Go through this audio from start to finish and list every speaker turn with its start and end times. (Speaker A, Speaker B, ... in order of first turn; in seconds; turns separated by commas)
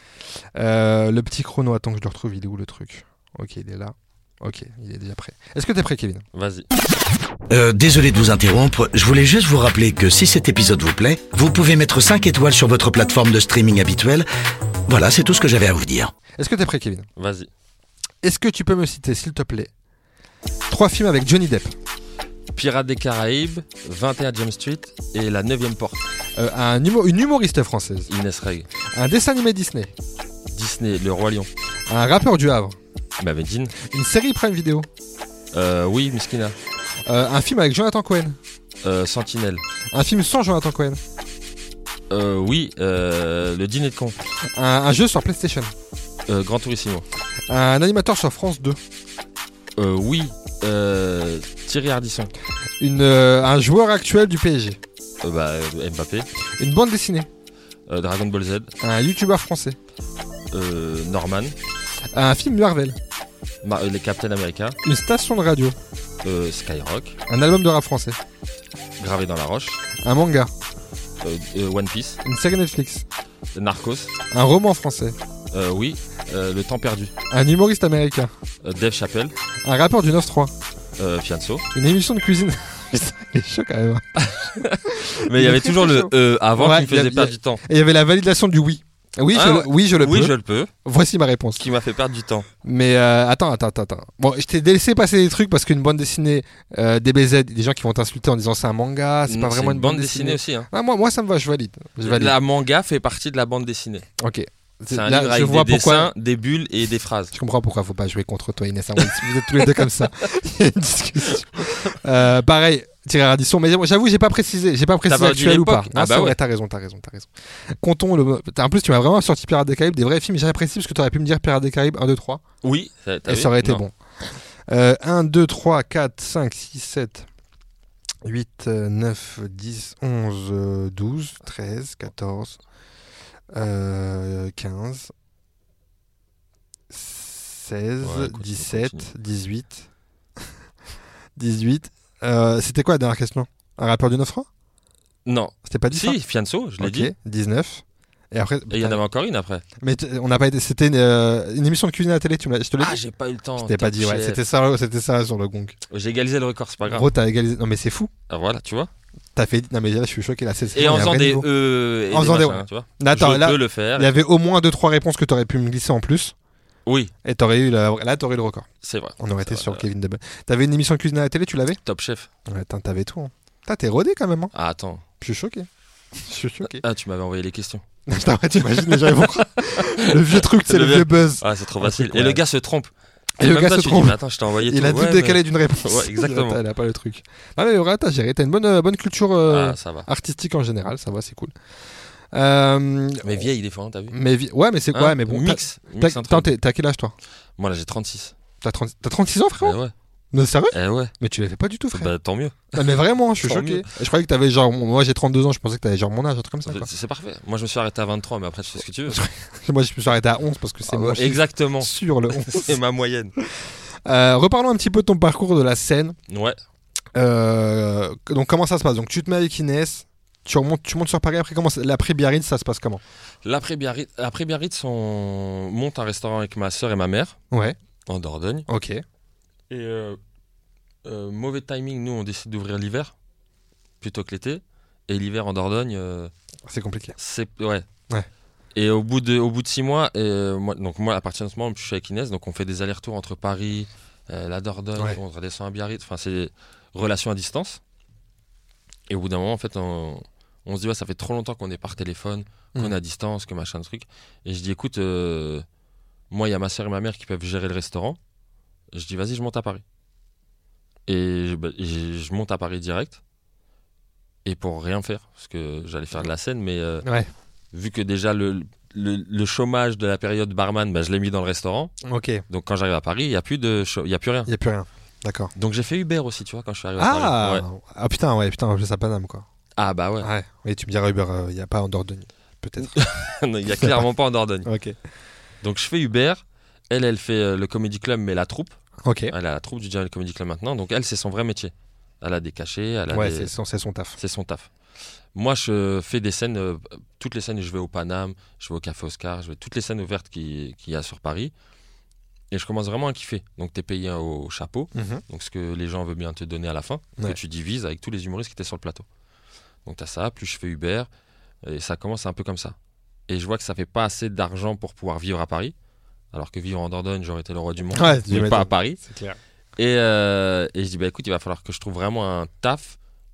Speaker A: 0.6-6.2, Speaker B: 6.3-6.7, Speaker C: 7.5-14.3, Speaker C: 14.9-16.1, Speaker A: 16.4-17.1, Speaker B: 17.2-17.5, Speaker A: 18.2-19.7, Speaker A: 20.7-21.8, Speaker B: 22.6-26.0, Speaker A: 26.4-28.1, Speaker B: 28.1-28.7, Speaker A: 28.8-29.9, Speaker B: 30.5-31.5, Speaker A: 31.9-32.8, Speaker B: 33.2-33.7, Speaker A: 33.8-34.9, Speaker B: 35.5-36.5, Speaker A: 37.1-38.4, Speaker B: 38.8-39.6, Speaker A: 39.9-41.0, Speaker B: 42.1-44.2, Speaker A: 44.4-45.7, Speaker B: 46.3-47.0, Speaker A: 47.5-48.8, Speaker B: 49.8-52.3, Speaker A: 52.8-54.8, Speaker B: 55.2-56.3, Speaker A: 56.6-57.3, Speaker B: 57.9-58.7, Speaker A: 58.8-59.8, Speaker B: 60.5-61.6, Speaker A: 62.0-63.0, Speaker B: 63.6-64.8, Speaker A: 64.8-65.8, Speaker B: 66.2-67.2, Speaker A: 67.3-68.2, Speaker B: 69.0-69.8, Speaker A: 70.0-70.5, Speaker B: 71.2-72.2, Speaker A: 72.2-73.0, Speaker B: 73.5-74.1, Speaker A: 74.3-75.2, Speaker B: 75.5-77.1, Speaker A: 77.3-78.3, Speaker B: 78.6-79.3, Speaker A: 79.6-80.5, Speaker B: 81.0-81.7, Speaker A: 81.7-84.0, Speaker B: 84.2-87.6, Speaker A: 84.9-91.7, Speaker B: 89.3-90.7, Speaker B: 91.6-92.5, Speaker A: 92.6-102.4, Speaker B: 99.3-100.7, Speaker B: 102.0-104.1, Speaker A: 104.2-106.1, Speaker B: 104.9-107.3, Speaker A: 107.3-122.4, Speaker B: 109.0-110.1, Speaker B: 115.1-116.4, Speaker B: 122.6-123.8, Speaker A: 123.3-127.3, Speaker A: 128.2-132.6, Speaker A: 133.5-135.1, Speaker A: 136.9-139.9, Speaker B: 138.0-139.1, Speaker A: 141.4-144.5, Speaker B: 145.3-147.1, Speaker A: 145.7-146.2, Speaker A: 146.8-149.0, Speaker B: 148.7-149.6, Speaker A: 149.8-153.0, Speaker B: 152.8-154.4, Speaker A: 153.6-155.8, Speaker B: 155.9-157.1, Speaker A: 156.9-158.1, Speaker B: 158.3-158.9, Speaker A: 159.3-161.5, Speaker B: 160.7-164.2, Speaker A: 162.1-166.3, Speaker B: 166.9-167.1, Speaker A: 167.2-168.7, Speaker B: 168.8-169.9, Speaker A: 169.2-171.8, Speaker B: 171.8-172.3, Speaker A: 172.5-174.5, Speaker B: 174.5-175.0, Speaker A: 175.2-176.8, Speaker B: 176.7-177.8, Speaker A: 178.1-182.4, Speaker B: 178.9-186.6, Speaker A: 183.4-191.6, Speaker B: 189.4-190.1, Speaker A: 192.3-193.5, Speaker B: 193.2-194.2, Speaker A: 194.1-197.1, Speaker B: 194.9-196.5, Speaker B: 197.6-198.3, Speaker A: 198.6-199.8, Speaker B: 199.6-199.9, Speaker A: 200.3-202.1, Speaker B: 200.7-201.1, Speaker B: 201.9-203.9, Speaker A: 202.7-206.9, Speaker B: 206.7-209.2, Speaker A: 209.1-212.8, Speaker B: 210.9-213.3, Speaker A: 213.4-216.2, Speaker B: 216.3-216.6, Speaker A: 217.2-223.0, Speaker B: 223.4-227.4, Speaker A: 227.5-227.8, Speaker B: 228.1-228.7, Speaker A: 228.7-229.0, Speaker B: 229.7-230.2, Speaker B: 231.1-233.1, Speaker B: 234.0-236.3, Speaker A: 236.7-237.2, Speaker B: 237.2-237.9, Speaker B: 238.8-247.8, Speaker B: 249.1-255.7, Speaker B: 256.3-258.2, Speaker B: 258.9-259.8, Speaker B: 261.1-263.2, Speaker B: 264.4-267.1, Speaker A: 267.0-267.3, Speaker B: 267.7-271.9, Speaker A: 272.0-272.4, Speaker B: 272.5-274.5, Speaker A: 274.5-275.5, Speaker B: 275.6-277.6, Speaker A: 277.0-279.5, Speaker B: 279.8-280.3, Speaker A: 280.2-283.0, Speaker B: 282.8-284.7, Speaker A: 283.8-284.0, Speaker A: 284.6-285.0, Speaker B: 285.6-288.8, Speaker A: 289.0-289.3, Speaker B: 289.3-293.5, Speaker A: 293.1-294.2, Speaker B: 294.2-294.7, Speaker B: 295.3-301.5, Speaker B: 302.5-309.1, Speaker A: 304.9-305.2, Speaker B: 309.9-311.1, Speaker B: 311.6-312.8, Speaker B: 313.3-315.7, Speaker B: 316.3-319.0, Speaker A: 317.9-319.4, Speaker B: 319.8-323.0